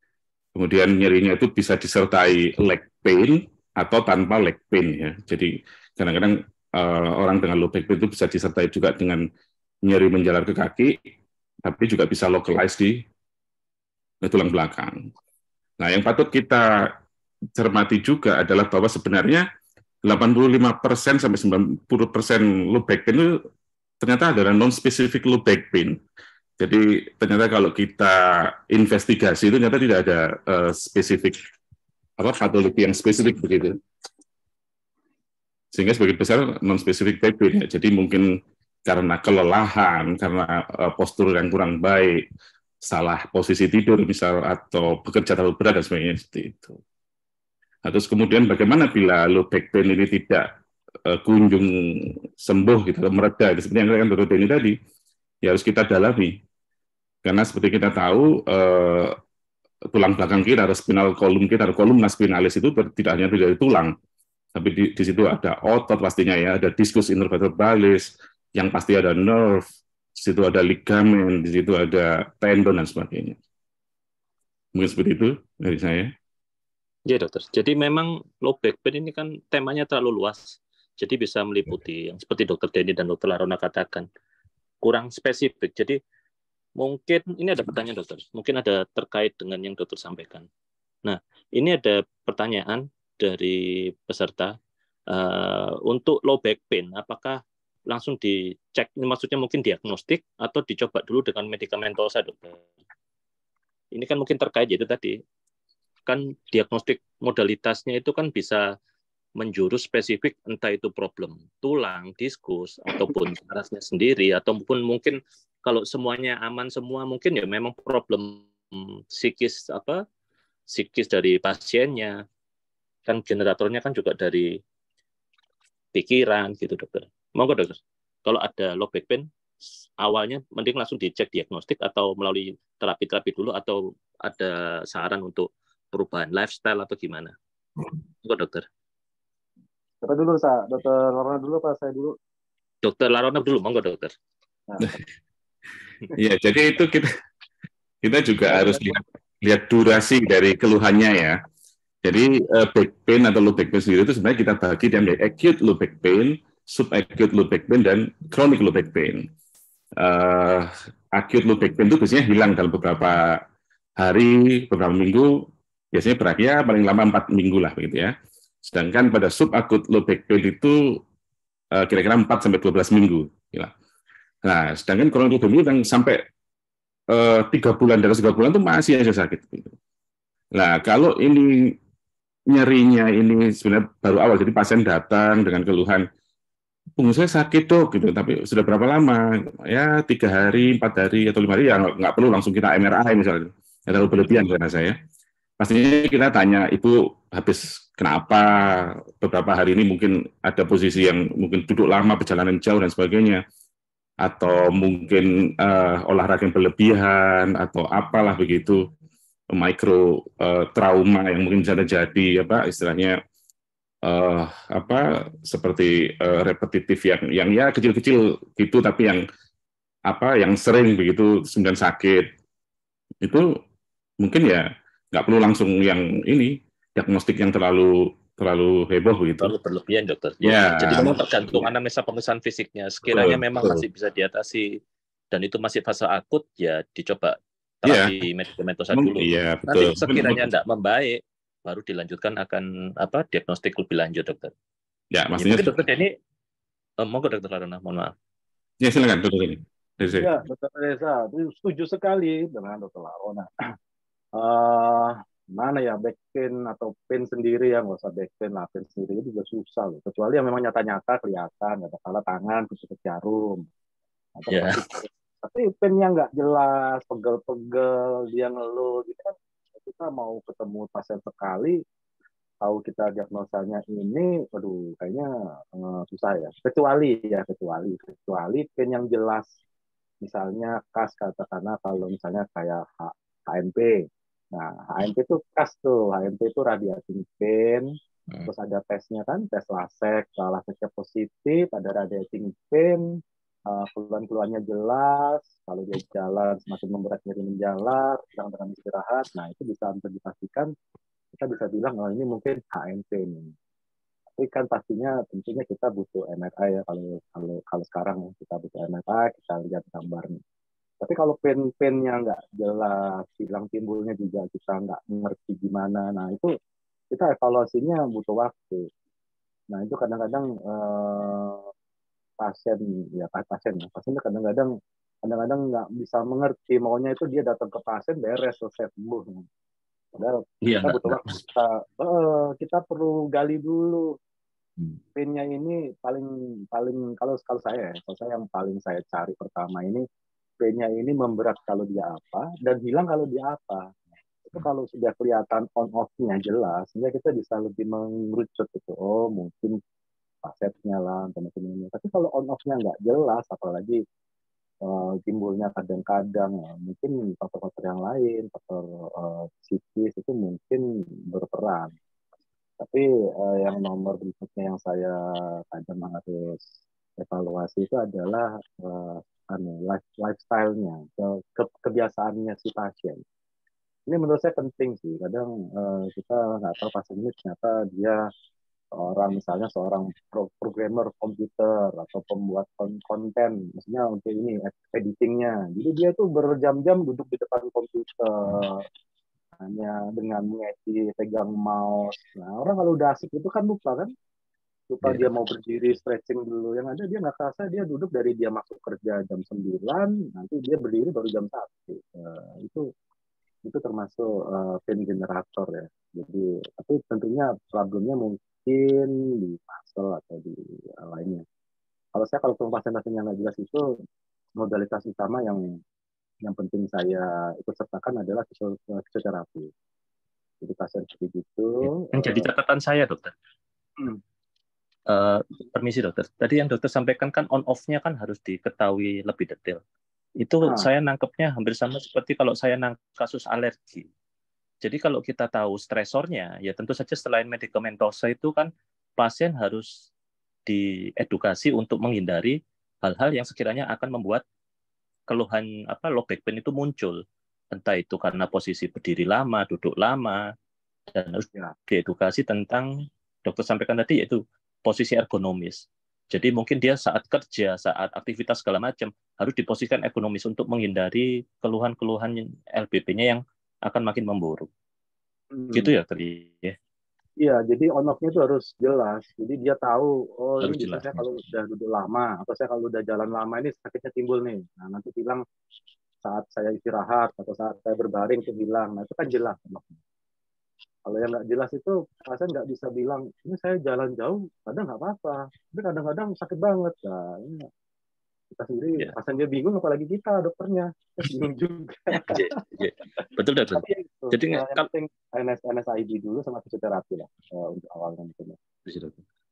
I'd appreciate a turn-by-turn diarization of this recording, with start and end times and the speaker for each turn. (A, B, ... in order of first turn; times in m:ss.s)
0:00.6-0:09.3 A
0:09.8-0:11.0 A
0:11.6-0:13.0 A
0:14.2-0:15.0 A
0:15.8-0:16.9 A
0:17.6-0:19.4 A
0:20.0-0:23.4 A
0:24.0-0:26.0 A
0:26.6-0:31.4 A
0:32.2-0:33.8 A
0:35.7-0:38.3 A
0:38.9-0:42.2 A
0:42.8-0:46.8 A
0:47.8-0:50.5 A
0:51.1-0:54.8 A
0:55.4-0:56.4 A
0:57.2-0:59.2 A
0:59.9-1:04.0 A
1:04.6-1:09.7 A
1:10.2-1:13.4 A
1:14.8-1:16.1 A
1:17.1-1:24.1 B
1:24.8-1:26.0 B
1:26.8-1:30.5 B
1:31.0-1:34.6 B
1:35.1-1:42.7 B
1:44.0-1:45.2 B
1:46.1-1:48.7 B
1:49.4-2:00.0 B
2:00.7-2:02.2 B
2:03.1-2:04.5 B
2:06.0-2:09.3 B
2:10.0-2:17.3 B
2:18.2-2:18.7 B
2:20.0-2:22.2 C
2:22.8-2:24.1 B
2:24.7-2:25.0 C
2:26.2-2:27.1 A
2:28.0-2:31.4 A
2:28.5-2:29.0 C
2:32.0-2:39.3 A
2:40.0-2:43.4 A
2:44.0-2:48.1 A
2:48.6-2:51.0 A
2:51.8-2:53.7 A
2:54.4-2:56.2 A
2:57.1-2:59.7 A
3:00.6-3:01.8 A
3:02.5-3:06.1 A
3:07.0-3:15.0 A
3:15.6-3:23.4 A
3:24.2-3:28.9 A
3:29.5-3:33.2 A
3:34.0-3:39.2 A
3:40.1-3:42.3 A
3:43.2-3:43.6 A
3:44.2-3:49.5 A
3:49.4-3:54.8 B
3:50.4-3:51.7 A
3:53.1-3:53.8 A
3:55.3-4:04.5 B
3:57.9-3:58.1 A
3:58.9-4:00.4 A
4:05.1-4:05.8 A
4:05.4-4:06.1 B
4:07.0-4:08.1 B
4:08.8-4:10.3 A
4:10.2-4:13.5 C
4:14.4-4:23.6 C
4:24.4-4:31.8 C
4:24.5-4:24.8 B
4:32.6-4:39.5 C
4:40.2-4:44.0 C
4:44.5-4:47.9 C
4:48.5-4:53.0 C
4:53.7-5:00.7 C
5:01.3-5:03.5 C
5:04.4-5:10.4 C
5:11.0-5:16.5 C
5:17.1-5:18.9 C
5:19.7-5:21.7 C
5:22.4-5:24.7 C
5:25.2-5:29.5 C
5:30.2-5:34.1 C
5:30.6-5:31.4 B
5:35.2-5:40.0 C
5:40.6-5:43.8 C
5:44.5-5:49.8 C
5:50.4-5:54.0 C
5:54.8-6:02.0 C
6:02.8-6:05.2 C
6:05.7-6:06.6 C
6:07.2-6:13.2 C
6:14.1-6:18.2 C
6:19.0-6:28.8 C
6:29.6-6:34.1 C
6:34.9-6:42.8 C
6:43.7-6:51.4 C
6:52.2-6:53.8 C
6:54.6-6:55.6 C
6:56.5-6:59.7 C
7:00.6-7:02.5 C
7:01.8-7:03.3 B
7:05.1-7:09.8 B
7:10.4-7:14.1 B
7:14.8-7:19.9 B
7:20.7-7:24.4 B
7:25.3-7:27.2 B
7:27.7-7:30.4 B
7:31.1-7:44.7 B
7:45.5-7:45.9 C
7:45.7-7:46.8 B
7:47.4-7:55.4 C
7:50.6-7:51.3 B
7:56.2-8:00.0 C
8:01.1-8:07.7 C
8:08.5-8:12.6 C
8:12.2-8:14.9 B
8:13.8-8:18.6 C
8:18.9-8:19.2 B